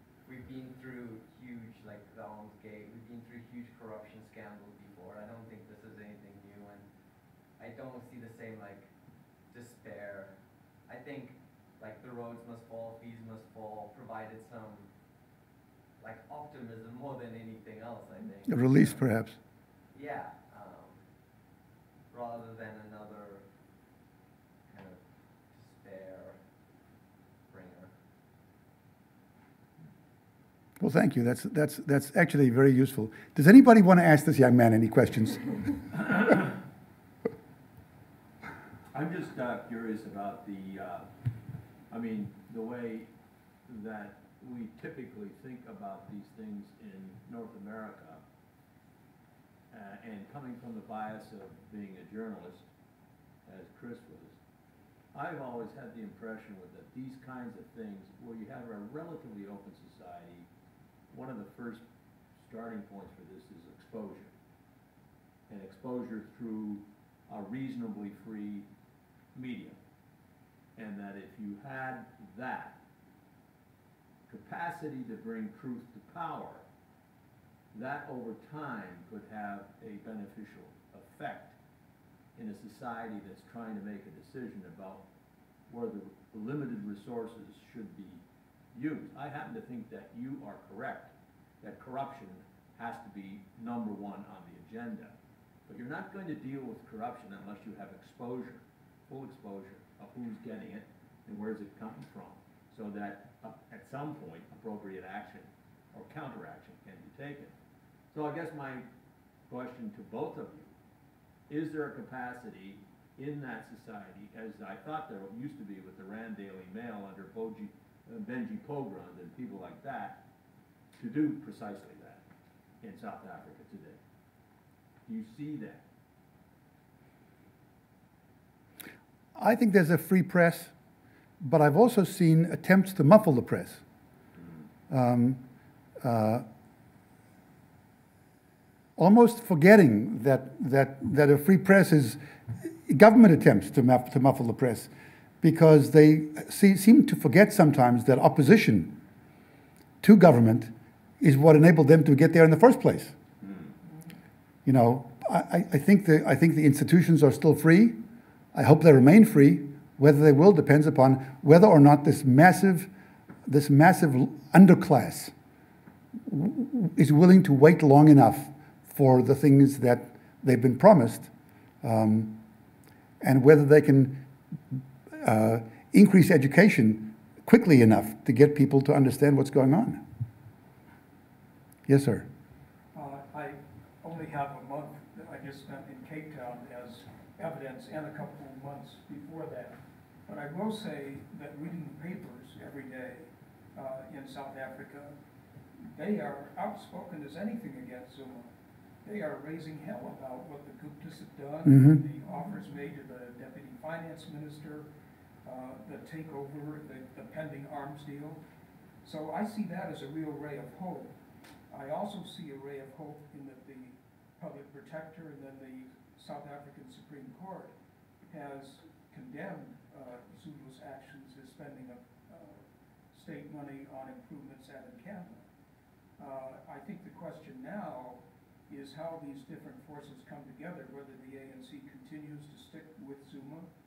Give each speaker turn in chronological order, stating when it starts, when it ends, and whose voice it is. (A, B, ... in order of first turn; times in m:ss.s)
0:00.2-0:06.9 A
0:07.6-0:08.9 A
0:09.5-0:10.3 A
0:10.9-0:14.9 A
0:16.0-0:19.0 A
0:18.5-0:19.4 B
0:19.9-0:21.0 A
0:22.1-0:23.5 A
0:24.7-0:26.4 A
0:27.5-0:27.9 A
0:30.8-0:35.7 B
0:38.9-0:41.1 C
0:41.9-0:43.1 C
0:43.7-0:48.2 C
0:49.7-0:52.7 C
0:53.5-0:54.4 C
0:55.1-1:00.5 C
1:01.1-1:01.8 C
1:02.4-1:04.3 C
1:05.5-1:08.7 C
1:09.3-1:09.8 C
1:10.8-1:12.8 C
1:14.3-1:16.6 C
1:17.7-1:21.6 C
1:22.4-1:25.0 C
1:25.7-1:28.2 C
1:28.7-1:35.1 C
1:35.7-1:47.5 C
1:48.1-1:48.8 C
1:49.5-1:50.7 C
1:51.5-2:00.2 C
2:01.0-2:02.2 C
2:02.8-2:04.0 C
2:05.1-2:05.8 C
2:09.4-2:10.7 B
2:11.4-2:13.8 B
2:14.9-2:15.4 B
2:16.0-2:16.4 B
2:19.0-2:24.9 B
2:25.4-2:29.0 B
2:30.0-2:33.2 B
2:34.6-2:38.0 B
2:38.5-2:42.9 B
2:43.5-2:45.3 B
2:46.3-2:51.3 B
2:51.8-2:52.4 B
2:53.2-2:54.3 B
2:55.2-3:00.0 B
3:01.9-3:02.3 B
3:02.9-3:15.2 D
3:15.9-3:18.5 D
3:19.0-3:24.9 D
3:21.7-3:22.0 B
3:25.4-3:28.4 D
3:29.0-3:31.2 D
3:31.7-3:37.7 D
3:38.3-3:45.4 D
3:46.2-3:53.7 D